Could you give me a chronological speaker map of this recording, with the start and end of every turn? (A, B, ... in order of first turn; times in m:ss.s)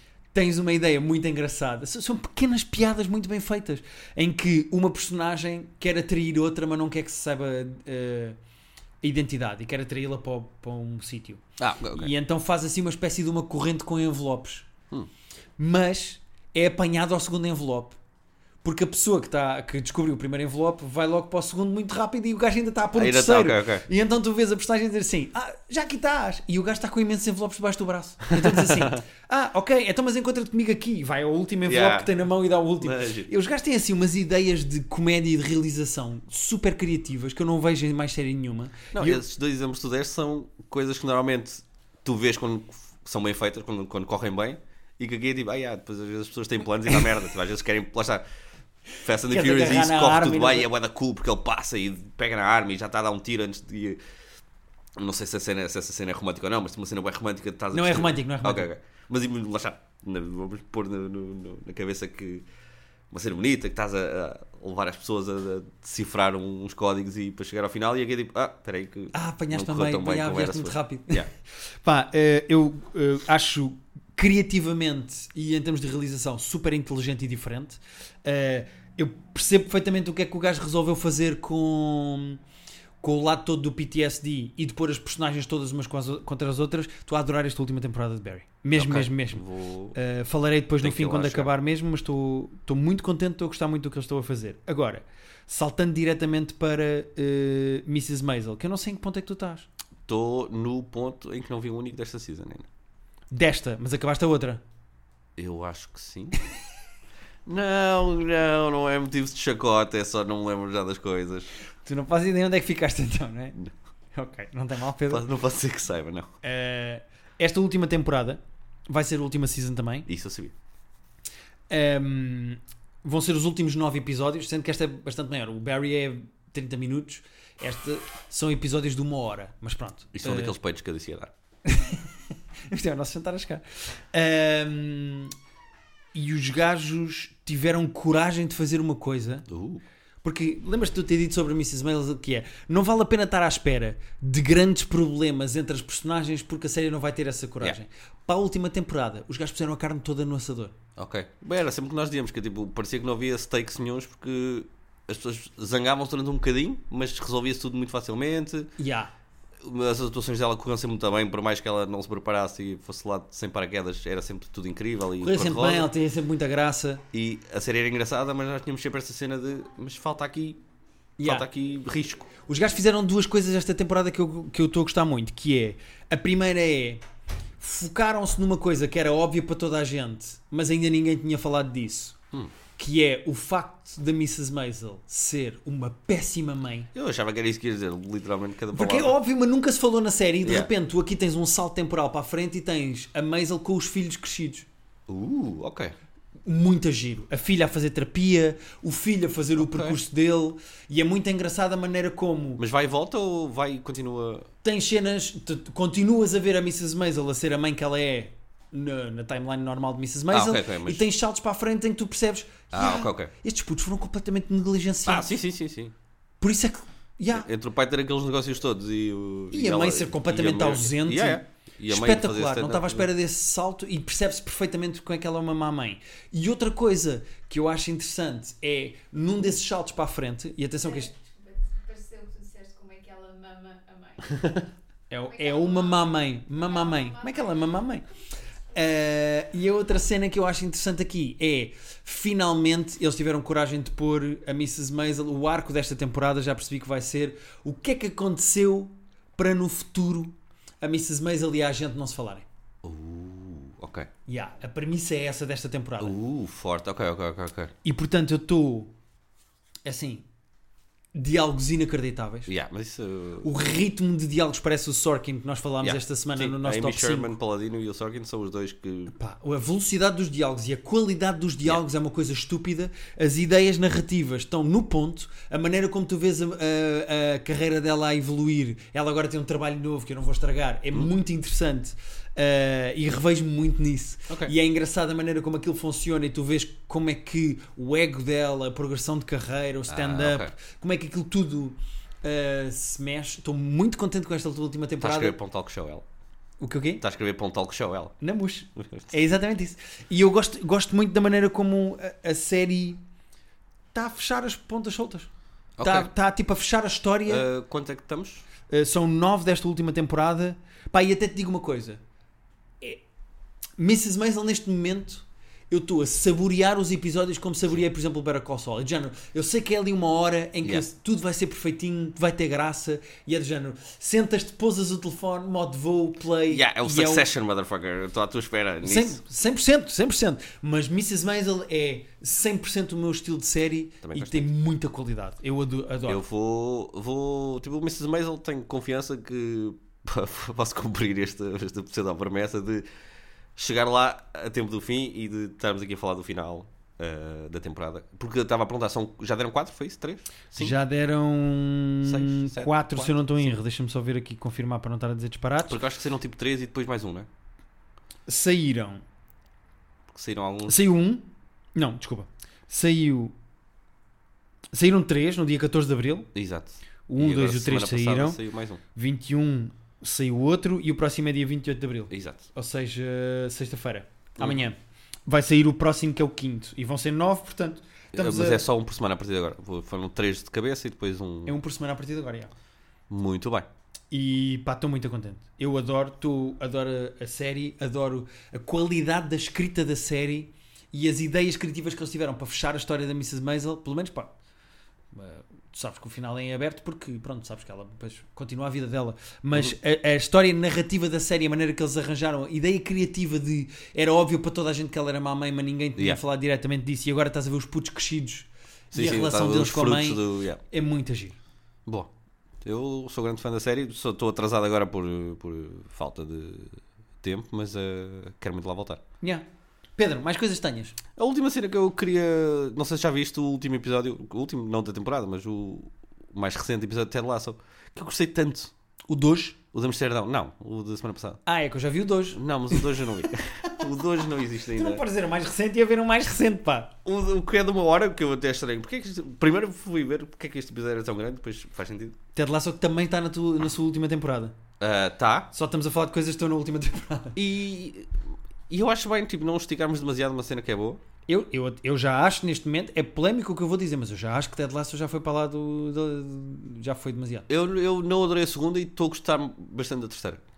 0:00.3-0:08.4 A
0:09.0-0:14.7 A
0:11.6-0:12.1 B
0:15.6-0:18.0 A
0:18.6-0:39.2 A
0:22.9-0:23.8 B
0:28.3-0:29.0 B
0:31.6-0:32.1 B
0:32.8-0:33.3 B
0:38.9-0:48.2 B
0:49.0-0:54.0 B
0:49.2-0:50.7 A
0:55.0-1:02.4 B
0:57.7-0:58.7 A
1:03.1-1:11.3 B
1:09.1-1:11.2 A
1:11.8-1:22.4 A
1:23.0-1:29.4 A
1:28.7-1:30.0 B
1:29.9-1:39.7 A
1:30.8-1:31.5 B
1:40.0-1:42.7 B
1:43.3-1:44.6 A
1:45.4-1:46.4 B
1:47.4-1:51.5 B
1:51.8-1:53.6 A
1:54.1-1:55.2 A
1:55.1-1:56.3 B
1:56.4-2:00.1 A
2:00.1-2:00.5 B
2:01.7-2:10.6 A
2:10.1-2:11.3 B
2:11.6-2:12.1 A
2:12.7-2:15.3 A
2:16.1-2:19.4 A
2:19.5-2:19.8 B
2:20.2-2:30.7 A
2:31.0-2:38.7 B
2:38.8-2:39.1 A
2:39.6-2:45.9 B
2:45.2-2:47.0 A
2:47.1-2:50.6 B
2:51.2-2:51.5 A
2:51.2-2:52.4 B
2:52.4-2:57.0 A
2:57.6-3:02.2 A
3:02.8-3:06.9 A
3:06.9-3:09.2 B
3:08.7-3:14.7 A
3:10.4-3:10.7 B
3:15.1-3:15.9 B
3:16.4-3:22.6 A
3:19.6-3:20.0 B
3:22.6-3:24.5 B
3:24.6-3:35.3 A
3:30.3-3:31.0 B
3:32.7-3:33.3 B
3:35.0-3:35.9 B
3:36.4-3:37.5 A
3:37.3-3:43.1 B
3:39.5-3:51.1 A
3:50.8-3:54.7 C
3:55.1-3:58.0 A
3:55.2-3:57.8 C
3:58.7-4:12.4 A
4:12.8-4:14.1 B
4:14.3-4:16.2 A
4:16.0-4:17.7 B
4:17.8-4:18.9 A
4:19.8-4:20.2 A
4:21.1-4:22.5 A
4:22.5-4:23.5 B
4:23.4-4:27.3 A
4:25.8-4:29.1 B
4:29.1-4:55.4 A
4:44.3-4:44.5 B
4:49.9-4:50.5 B
4:55.0-4:56.0 B
4:56.6-4:57.0 A
4:57.0-4:58.2 B
4:58.2-5:03.0 A
4:58.7-4:59.1 B
5:03.9-5:05.3 A
5:05.8-5:06.1 B
5:05.8-5:07.4 A
5:07.2-5:08.4 B
5:08.7-5:12.0 A
5:13.8-5:27.3 A
5:26.5-5:29.2 B
5:28.8-5:36.2 A
5:34.0-5:34.5 B
5:36.1-5:42.8 B
5:43.6-5:50.8 B
5:50.6-5:55.8 A
5:52.0-5:53.5 B
5:55.6-5:57.3 B
5:58.3-5:59.0 A
6:00.1-6:00.8 B
6:00.7-6:03.3 A
6:04.7-6:06.3 A
6:06.3-6:08.8 B
6:07.1-6:08.4 A
6:08.9-6:18.6 A
6:12.1-6:12.5 B
6:14.4-6:14.6 B
6:18.1-6:21.5 B
6:21.4-6:22.5 A
6:23.1-6:23.7 B
6:24.1-6:34.3 A
6:35.1-6:51.4 A
6:48.9-6:50.6 B
6:52.6-6:59.0 B
7:00.0-7:01.0 A
7:01.2-7:08.7 B
7:09.1-7:09.6 A
7:09.7-7:11.4 B
7:11.4-7:13.0 A
7:12.3-7:15.0 B
7:14.6-7:16.9 A
7:17.0-7:22.2 B
7:22.3-7:24.6 A
7:24.8-7:25.5 B
7:25.5-7:27.3 A
7:27.4-7:28.2 B
7:28.7-7:31.0 B
7:31.3-7:37.5 A
7:37.5-7:40.4 B